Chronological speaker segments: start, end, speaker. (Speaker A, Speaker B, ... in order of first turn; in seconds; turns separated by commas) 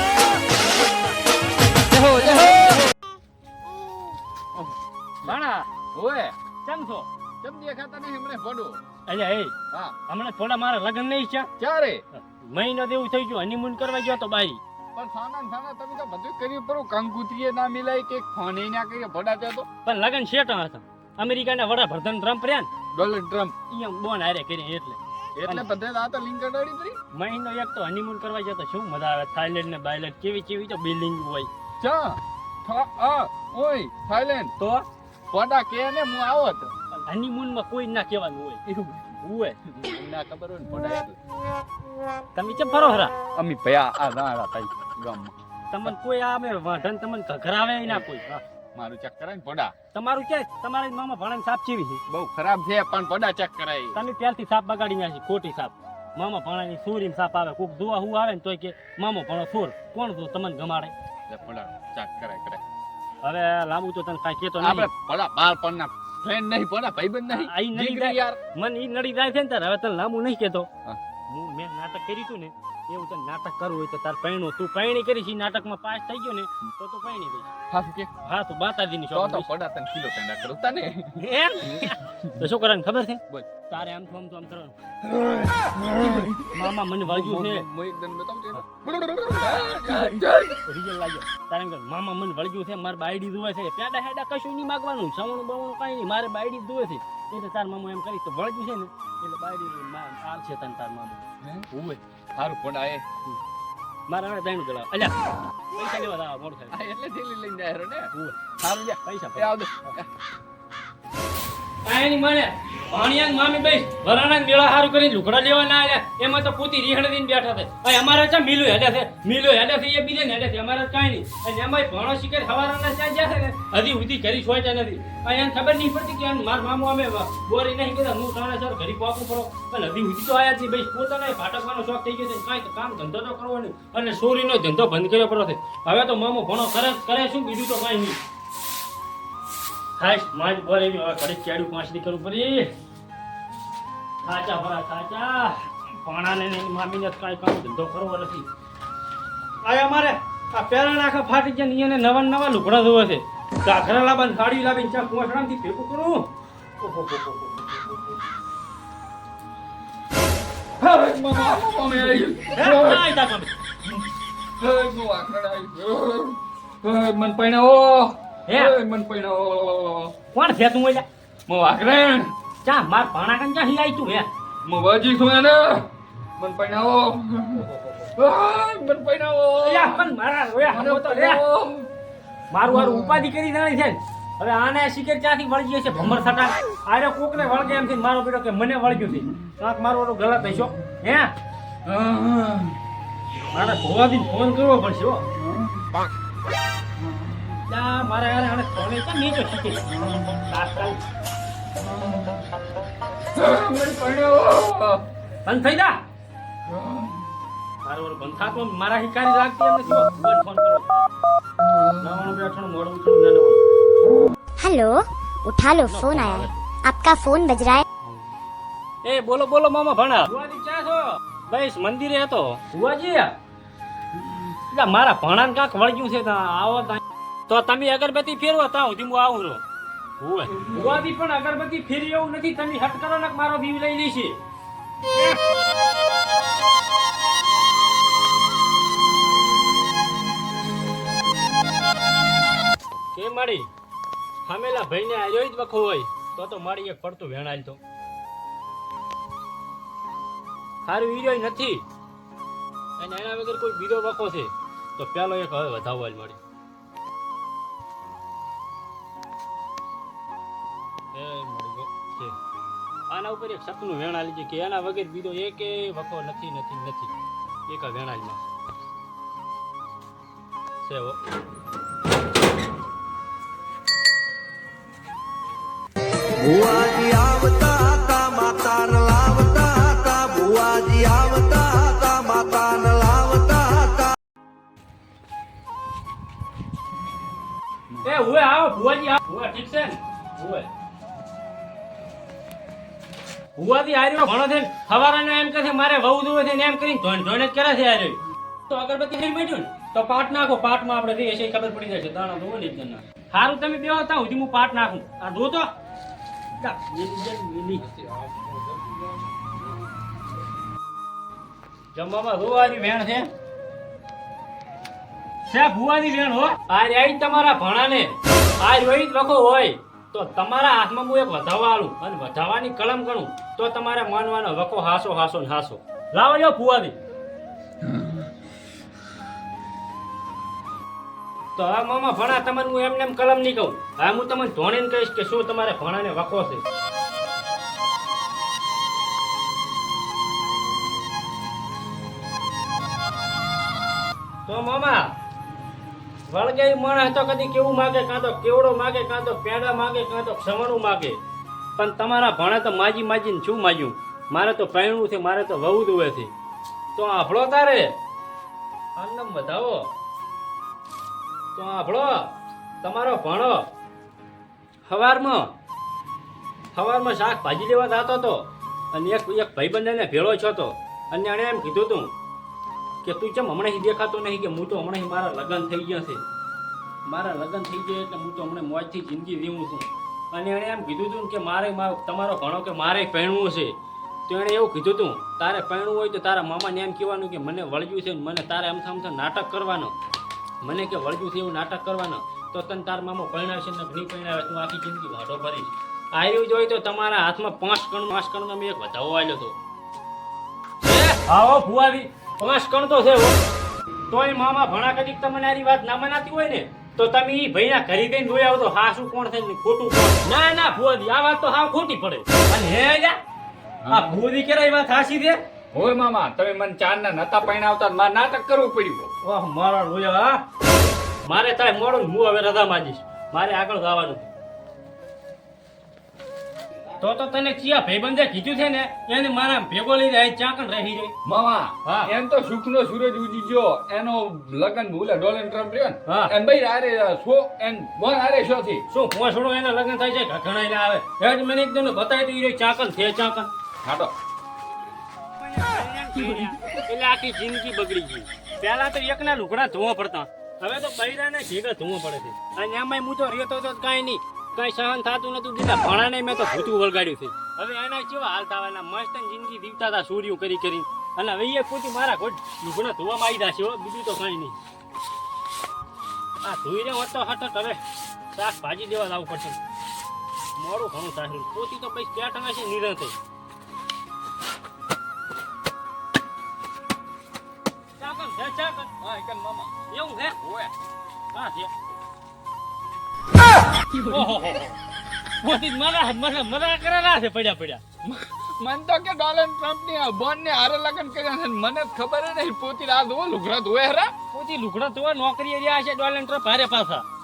Speaker A: 1.9-2.9, Speaker B: 5.2-5.7, Speaker A: 5.9-6.3, Speaker B: 6.6-7.1, Speaker A: 7.4-8.8, Speaker B: 9.1-9.5, Speaker B: 10.1-11.5, Speaker A: 11.6-12.0, Speaker B: 12.1-14.6, Speaker A: 14.9-19.7, Speaker B: 19.8-22.7, Speaker A: 22.9-23.5, Speaker B: 23.7-25.7, Speaker A: 25.4-27.0, Speaker B: 27.1-31.5, Speaker A: 31.8-34.5, Speaker B: 34.6-34.9, Speaker A: 35.3-36.7, Speaker B: 36.9-38.6, Speaker A: 38.6-41.2, Speaker B: 39.2-39.6, Speaker B: 42.3-43.1, Speaker A: 43.4-45.9, Speaker B: 45.7-48.4, Speaker A: 48.7-49.7, Speaker B: 49.9-52.0, Speaker A: 52.1-54.0, Speaker B: 53.9-60.9, Speaker A: 61.3-62.6, Speaker B: 63.2-64.9, Speaker A: 64.6-68.4, Speaker B: 67.3-70.7, Speaker B: 71.3-77.5, Speaker A: 77.7-78.1, Speaker B: 78.2-79.5, Speaker A: 79.1-82.5, Speaker B: 81.2-84.8, Speaker A: 85.0-90.6, Speaker B: 86.5-87.7, Speaker B: 90.6-102.0, Speaker A: 101.4-101.7, Speaker A: 102.3-103.0, Speaker B: 104.1-105.2, Speaker B: 105.7-106.8, Speaker A: 106.7-110.1, Speaker B: 109.0-109.9, Speaker B: 111.8-138.2, Speaker B: 140.0-142.7, Speaker B: 144.2-148.5, Speaker B: 149.6-156.3, Speaker B: 156.8-157.9, Speaker A: 160.8-163.1, Speaker B: 162.5-163.5, Speaker A: 164.6-170.1, Speaker B: 168.5-168.7, Speaker B: 170.3-171.1, Speaker A: 171.5-172.3, Speaker B: 172.6-174.3, Speaker A: 174.6-180.1, Speaker B: 179.6-181.4, Speaker A: 180.7-181.9, Speaker B: 182.5-191.3, Speaker A: 182.6-183.3, Speaker A: 191.8-192.8, Speaker B: 193.5-195.2, Speaker A: 195.3-195.9, Speaker A: 197.0-197.5, Speaker B: 197.7-199.8, Speaker A: 199.9-200.4, Speaker B: 200.4-201.0, Speaker A: 201.8-202.4, Speaker A: 203.3-205.0, Speaker B: 205.4-206.0, Speaker A: 206.7-207.2, Speaker B: 207.8-211.1, Speaker A: 211.6-212.2, Speaker B: 212.0-213.6, Speaker C: 214.6-217.8, Speaker B: 215.9-216.6, Speaker B: 219.0-223.3, Speaker B: 224.7-229.6, Speaker B: 230.2-234.4, Speaker B: 243.1-243.7, Speaker B: 244.4-247.8, Speaker B: 250.8-251.8, Speaker B: 253.0-256.4, Speaker B: 261.1-262.4, Speaker B: 263.1-267.1, Speaker B: 267.7-268.4, Speaker B: 270.8-271.2, Speaker D: 276.4-284.1, Speaker A: 287.9-288.2, Speaker B: 288.0-290.7, Speaker B: 293.6-305.7, Speaker B: 306.6-307.9, Speaker A: 307.9-308.9, Speaker B: 311.9-313.3, Speaker B: 315.5-327.0, Speaker B: 331.5-336.6, Speaker B: 344.4-345.1, Speaker B: 346.3-351.2, Speaker B: 351.8-356.3, Speaker B: 356.9-358.0, Speaker B: 358.9-359.9, Speaker B: 361.5-363.7, Speaker B: 364.8-365.5, Speaker B: 366.7-372.1, Speaker B: 373.0-376.2, Speaker B: 377.0-389.9, Speaker B: 390.6-399.6, Speaker B: 400.8-403.4, Speaker B: 404.1-413.2, Speaker A: 413.8-414.1, Speaker B: 413.9-415.4, Speaker A: 415.7-419.1, Speaker B: 419.2-420.4, Speaker B: 421.2-424.3, Speaker B: 427.0-431.1, Speaker A: 431.2-438.8, Speaker B: 431.8-432.1, Speaker B: 436.1-436.3, Speaker B: 438.9-443.5, Speaker A: 443.8-444.1, Speaker B: 445.4-464.6, Speaker B: 466.4-469.6, Speaker B: 470.6-473.1, Speaker B: 478.0-478.9, Speaker A: 479.0-479.7, Speaker B: 479.9-480.4, Speaker A: 480.4-480.7, Speaker B: 481.3-481.7, Speaker A: 483.9-484.3, Speaker B: 484.1-484.8, Speaker B: 485.4-487.8, Speaker A: 488.0-494.1, Speaker B: 494.3-497.1